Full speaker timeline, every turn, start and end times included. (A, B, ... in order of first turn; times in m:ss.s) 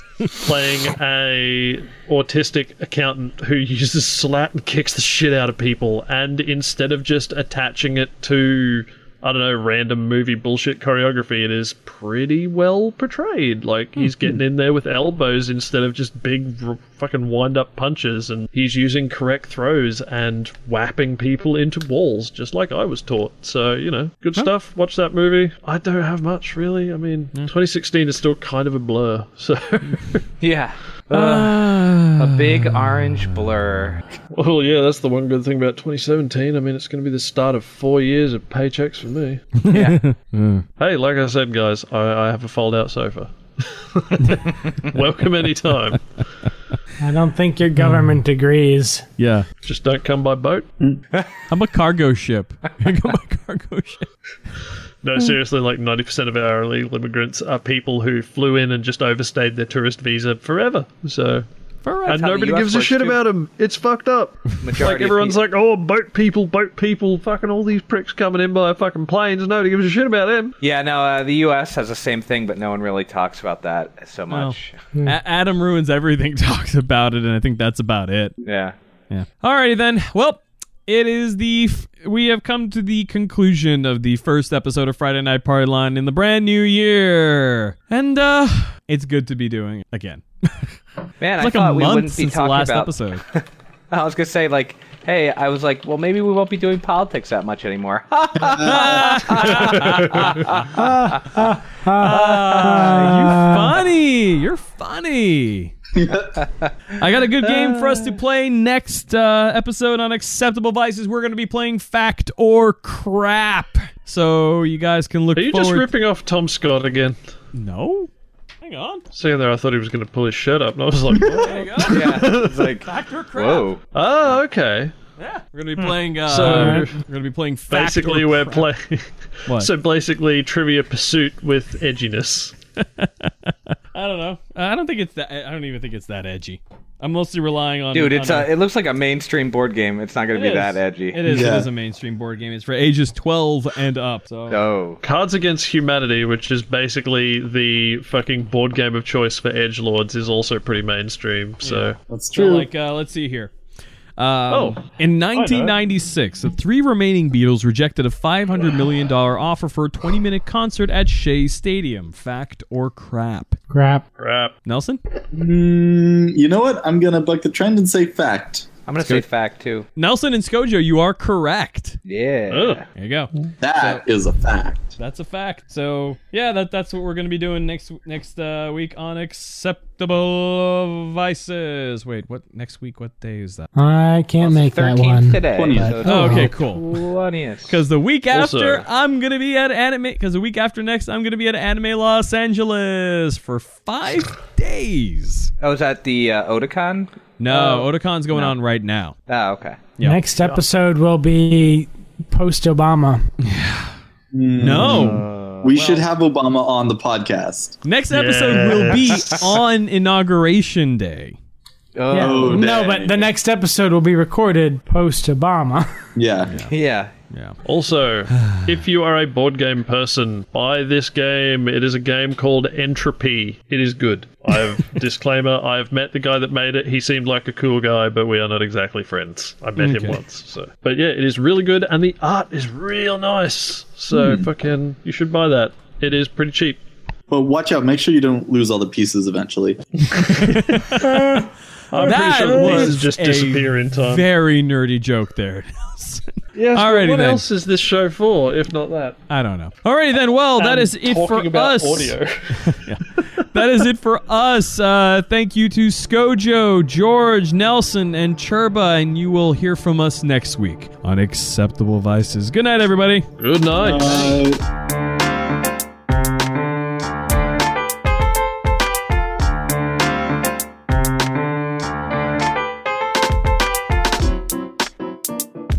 0:00.3-0:30.2 A
0:30.4-0:34.0 B
0:31.1-0:33.3 C
0:34.3-0:39.6 A
0:39.6-0:40.6 C
0:39.7-0:40.0 B
0:40.8-0:46.2 A
0:47.0-0:49.1 D
0:47.8-0:48.2 C
0:49.2-0:49.5 C
0:49.6-0:50.7 A
0:51.5-0:54.1 C
0:55.0-1:01.5 A
1:01.8-1:02.3 C
1:02.1-1:10.6 A
1:02.2-1:03.2 B
1:04.6-1:05.4 B
1:10.6-1:14.7 B
1:14.3-1:18.4 C
1:18.4-1:18.8 B
1:19.1-1:30.8 C
1:31.2-1:41.5 B
1:31.4-1:33.2 C
1:38.4-1:39.2 E
1:38.6-1:40.6 C
1:39.8-1:40.2 A
1:40.7-1:43.7 D
1:41.9-1:45.7 C
1:42.0-1:43.5 B
1:45.9-1:46.4 E
1:47.0-1:55.9 C
1:55.4-1:57.2 A
1:57.5-1:58.1 C
1:58.6-1:59.0 C
1:59.1-2:02.8 A
2:01.2-2:03.7 C
2:01.8-2:03.8 B
2:03.9-2:04.9 A
2:05.2-2:08.7 C
2:06.3-2:07.0 A
2:06.4-2:06.8 D
2:07.7-2:12.5 A
2:12.8-2:18.5 C
2:17.9-2:21.4 B
2:20.3-2:24.6 C
2:21.3-2:21.7 E
2:24.5-2:25.0 B
2:25.0-2:32.0 A
2:31.6-2:33.5 C
2:32.1-2:32.7 E
2:34.2-2:43.6 C
2:34.5-2:35.8 A
2:43.7-2:44.0 D
2:44.2-2:44.5 A
2:44.7-2:45.0 C
2:45.3-2:48.7 E
2:48.9-2:49.9 B
2:50.0-2:52.0 C
2:52.0-2:52.8 B
2:52.5-2:52.8 A
2:53.0-2:54.0 C
2:53.6-2:55.0 E
2:55.0-3:03.7 C
3:03.8-3:06.6 D
3:04.4-3:07.8 B
3:05.5-3:06.1 E
3:06.0-3:07.0 C
3:07.7-3:15.5 C
3:08.3-3:08.8 A
3:15.6-3:18.6 B
3:17.4-3:19.1 C
3:19.3-3:19.8 B
3:20.0-3:23.3 D
3:23.4-3:23.9 C
3:24.3-3:27.8 E
3:24.6-3:25.3 C
3:24.7-3:26.0 B
3:27.8-3:31.4 C
3:28.1-3:29.4 A
3:32.0-3:33.3 B
3:32.1-3:35.9 D
3:32.1-3:32.7 E
3:36.2-3:36.6 E
3:36.5-3:36.7 C
3:36.6-3:37.1 B
3:37.3-3:37.6 C
3:37.6-3:56.8 A
3:38.3-3:38.8 C
3:49.8-3:50.2 C
3:54.1-3:54.5 E
3:57.3-4:00.3 E
4:00.3-4:04.2 A
4:00.3-4:07.4 C
4:06.6-4:09.2 A
4:09.3-4:23.3 C
4:10.6-4:13.5 A
4:23.4-4:24.4 A
4:23.8-4:24.6 E